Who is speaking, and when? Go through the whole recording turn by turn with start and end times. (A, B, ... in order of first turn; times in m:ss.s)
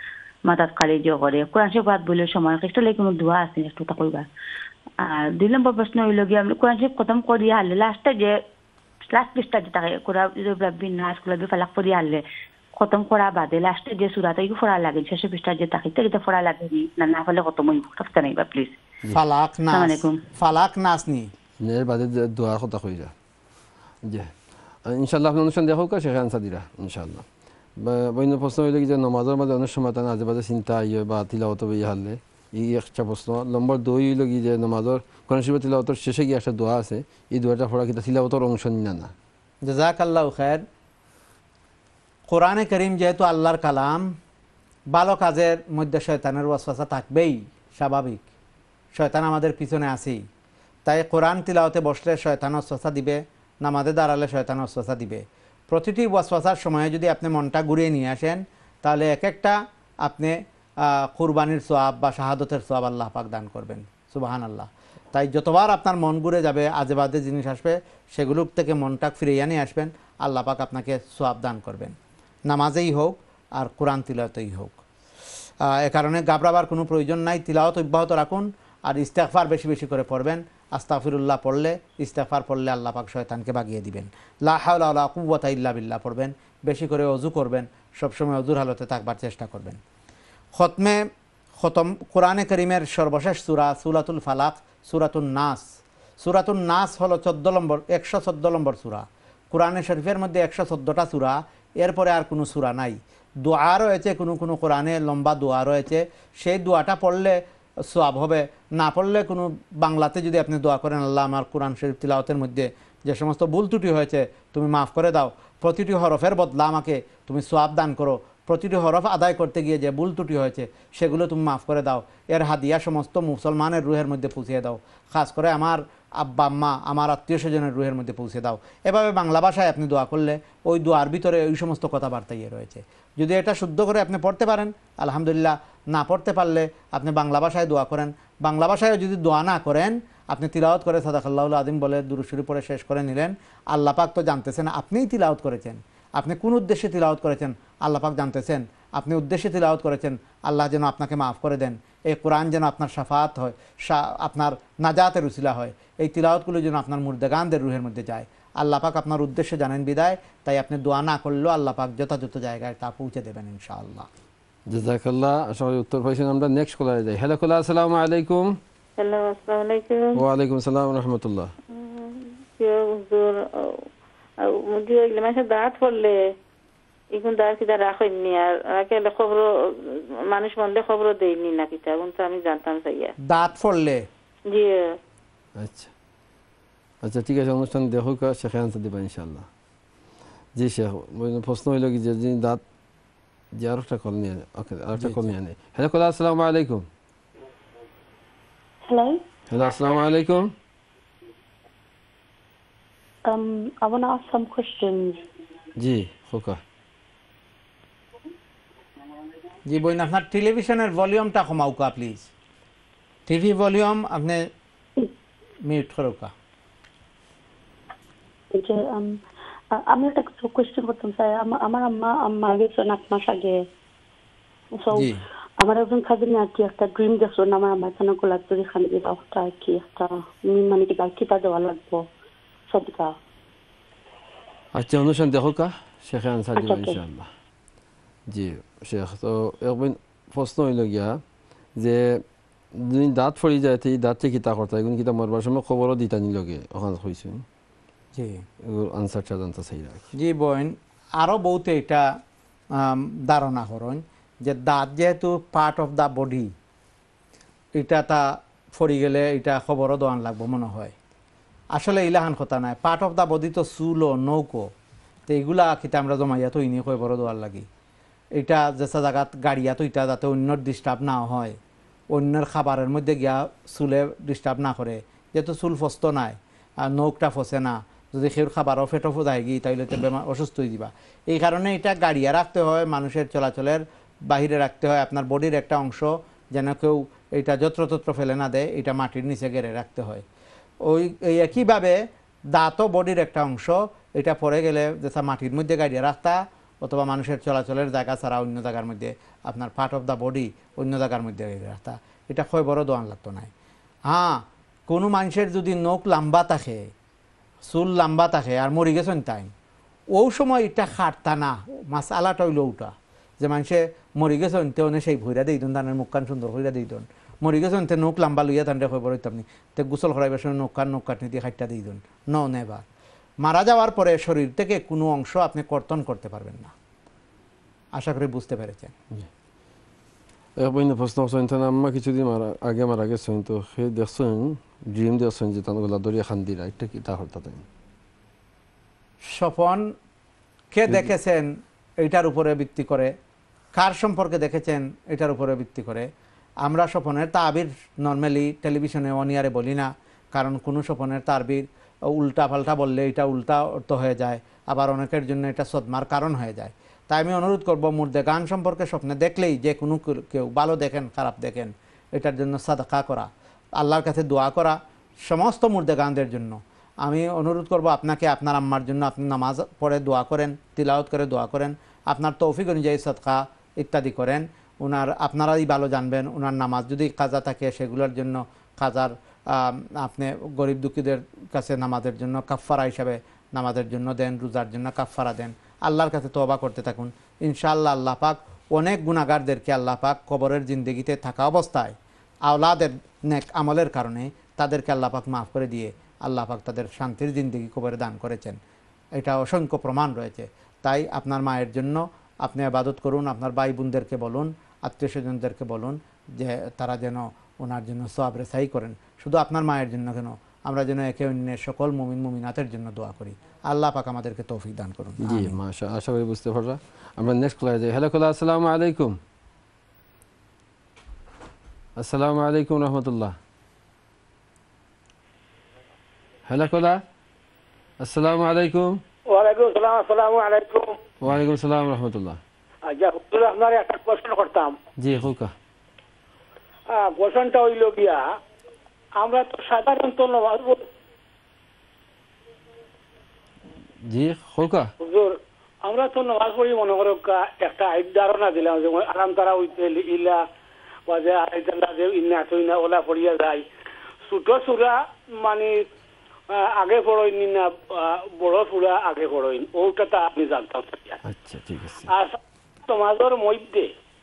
0:00.4-0:04.3 A
0:05.0-0:08.4 A
0:09.1-0:18.8 A
0:19.1-0:21.3 B
0:19.7-0:20.2 A
0:21.6-0:23.1 C
0:24.0-0:24.3 C
0:24.9-0:27.2 C
0:27.8-0:39.1 C
0:39.6-0:40.6 B
0:42.3-0:44.1 B
0:44.9-0:48.2 B
0:48.9-0:50.2 B
0:50.8-1:12.0 B
1:12.5-1:14.8 B
1:15.6-1:29.8 B
1:30.6-1:31.0 B
1:31.6-1:35.6 B
1:36.2-1:47.4 B
1:47.9-2:44.1 B
2:44.7-2:48.6 C
2:49.0-2:50.2 D
2:50.2-2:51.5 C
2:51.7-2:53.9 D
2:54.4-2:56.2 D
2:57.1-3:03.1 D
3:03.2-3:04.0 B
3:04.5-3:04.9 D
3:05.6-3:05.9 C
3:07.0-3:09.5 C
3:10.6-3:12.6 C
3:13.6-3:16.8 C
3:15.0-3:15.3 B
3:18.8-3:19.2 E
3:19.5-3:20.5 C
3:23.3-3:25.2 E
3:25.8-3:26.6 C
3:29.7-3:32.3 B
3:33.3-3:34.5 B
3:35.6-3:36.3 B
3:38.5-3:39.1 E
3:39.9-3:43.6 E
3:44.8-3:52.0 E
3:44.9-3:45.2 B
3:52.7-3:53.1 E
3:54.7-3:57.3 C
3:56.6-3:57.0 E
3:58.3-4:01.2 C
4:01.8-4:02.2 C
4:02.7-4:07.4 C
4:08.1-4:08.4 B
4:08.6-4:10.0 C
4:10.1-4:12.0 B
4:12.8-4:16.5 B
4:17.8-4:20.9 B
4:21.7-4:24.7 B
4:25.3-4:27.6 B
4:28.4-4:31.6 B
4:32.1-4:50.2 B
4:50.8-4:52.0 B
4:52.5-5:03.5 B
5:04.1-5:06.9 B
5:07.7-5:09.5 B
5:10.1-5:22.8 B
5:23.4-5:26.7 B
5:28.0-5:28.9 B
5:30.6-5:37.6 C
5:39.3-5:39.9 B
5:40.7-5:41.5 B
5:42.0-5:43.1 B
5:43.7-5:46.1 B
5:46.6-6:31.9 B
6:32.4-6:38.6 B
6:39.2-6:55.5 B
6:55.2-6:59.2 C
7:02.0-7:03.4 C
7:06.5-7:07.0 C
7:08.0-7:09.0 C
7:09.3-7:11.0 F
7:11.2-7:12.4 C
7:12.9-7:14.8 F
7:15.0-7:15.5 C
7:16.9-7:18.2 F
7:19.2-7:20.8 F
7:24.0-7:24.9 C
7:25.0-7:30.4 F
7:31.1-7:33.6 F
7:34.2-7:35.8 F
7:36.5-7:41.2 F
7:41.2-7:42.1 C
7:42.1-7:43.9 F